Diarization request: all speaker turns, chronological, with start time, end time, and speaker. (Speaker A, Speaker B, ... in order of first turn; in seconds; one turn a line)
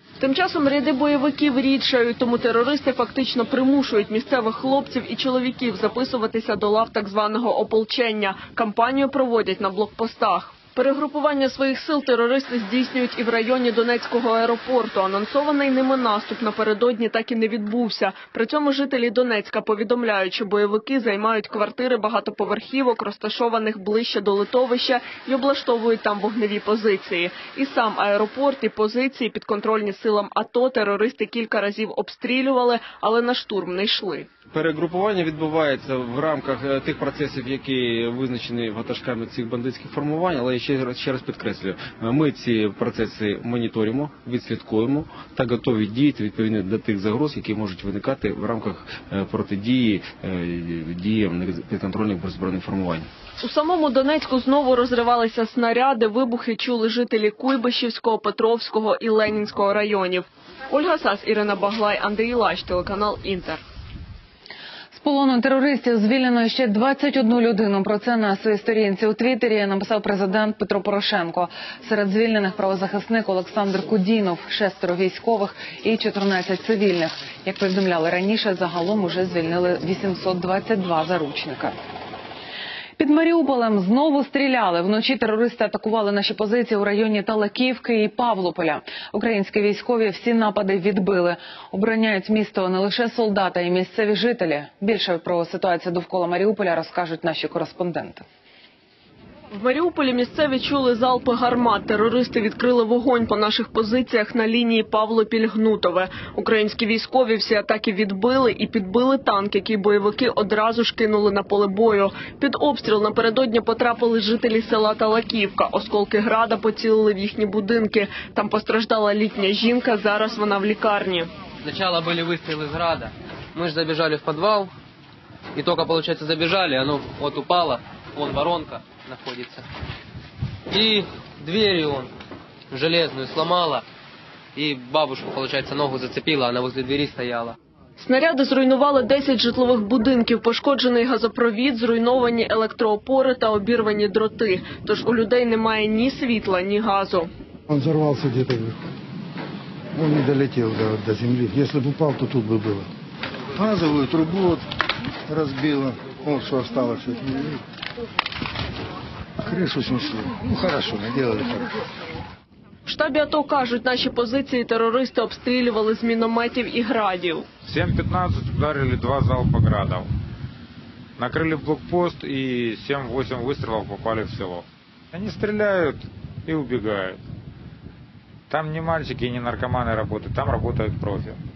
Speaker A: 0.2-34.3
Speaker B: 34.5-53.0
Speaker A: 53.4-63.6
Speaker C: 64.9-81.8
Speaker C: 83.0-98.2
Speaker A: 99.5-121.3
Speaker D: 121.6-124.7
Speaker D: 125.5-129.7
Speaker D: 130.7-132.1
Speaker D: 132.7-133.8
Speaker D: 134.5-137.6
Speaker A: 138.0-147.3
Speaker E: 147.7-148.8
Speaker E: 149.9-152.9
Speaker E: 153.5-154.7
Speaker E: 155.3-157.6
Speaker E: 159.4-161.7
Speaker A: 162.8-167.4
Speaker F: 167.6-170.1
Speaker F: 171.2-177.2
Speaker F: 178.5-181.4